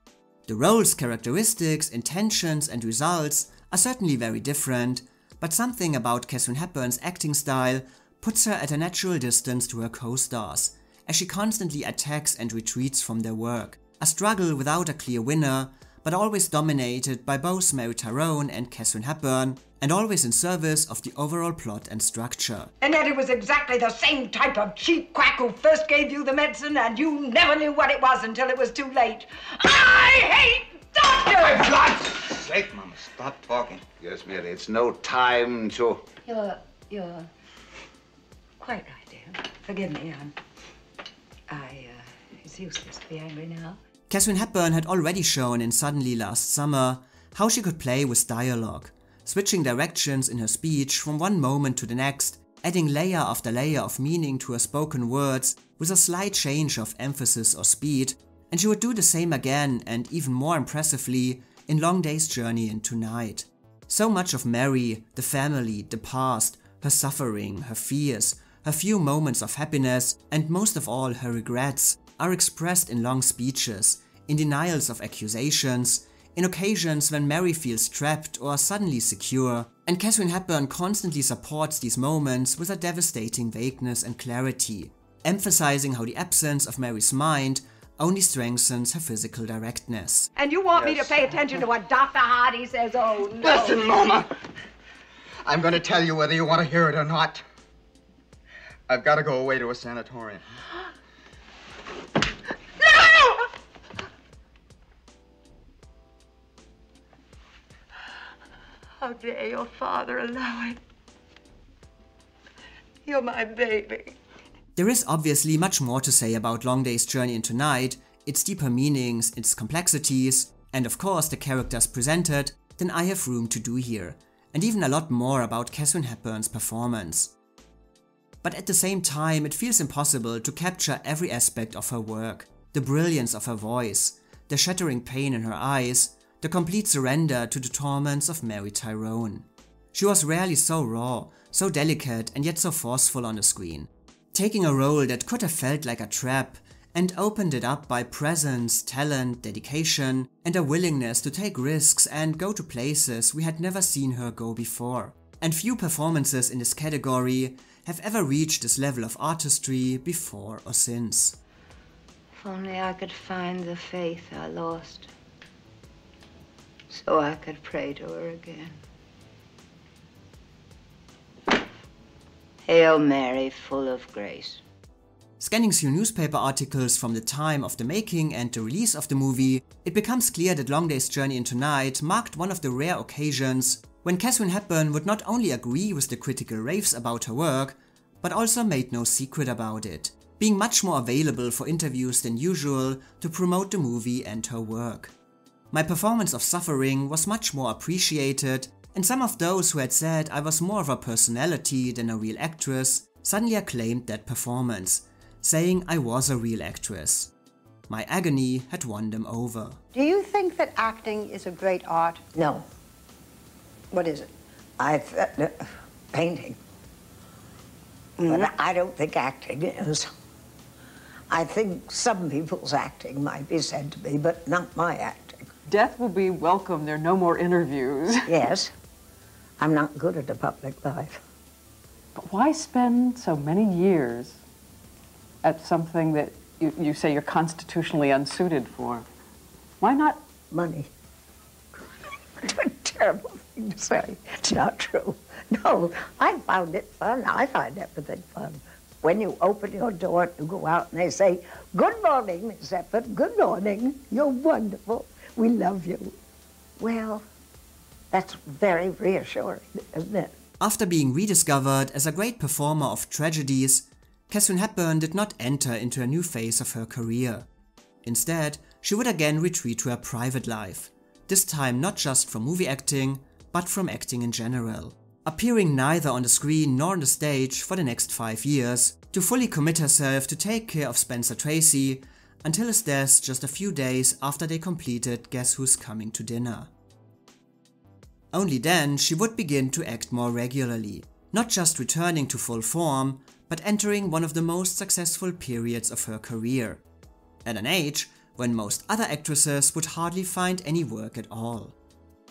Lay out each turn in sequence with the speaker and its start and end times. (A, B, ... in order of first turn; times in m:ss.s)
0:00.5-0:22.7 A
0:22.8-0:31.9 B
0:32.4-0:33.8 C
0:34.0-0:36.0 D
0:36.3-0:37.1 B
0:36.3-0:37.2 E
0:38.6-0:40.4 B
0:41.5-0:43.8 B
0:44.1-1:30.3 A
1:30.4-1:33.9 B
1:30.8-1:31.1 C
1:33.4-1:34.3 C
1:35.4-1:37.4 C
1:38.9-1:40.4 C
1:49.0-1:50.8 B
1:53.0-1:54.1 B
1:54.8-2:07.3 A
2:08.4-2:41.4 A
2:42.4-2:45.1 E
2:46.9-2:48.8 E
2:52.6-2:54.6 E
2:55.4-3:15.1 A
3:15.7-3:27.3 A
3:27.9-3:29.8 A
3:29.9-3:32.2 F
3:32.3-3:32.6 G
3:33.9-3:34.3 F
3:34.8-3:36.6 G
3:38.2-3:38.5 B
3:38.2-3:40.1 G
3:41.3-3:45.5 G
3:45.7-3:48.4 H
3:48.2-3:48.7 G
3:49.6-3:51.2 G
3:52.2-3:54.4 H
3:55.4-3:59.0 H
3:59.8-4:00.2 H
4:00.5-4:00.9 G
4:02.4-4:16.2 G
4:16.8-4:17.3 G
4:18.1-4:20.3 G
4:20.6-4:27.4 A
4:28.0-4:46.7 A
4:48.3-4:56.8 A
4:57.4-5:01.7 A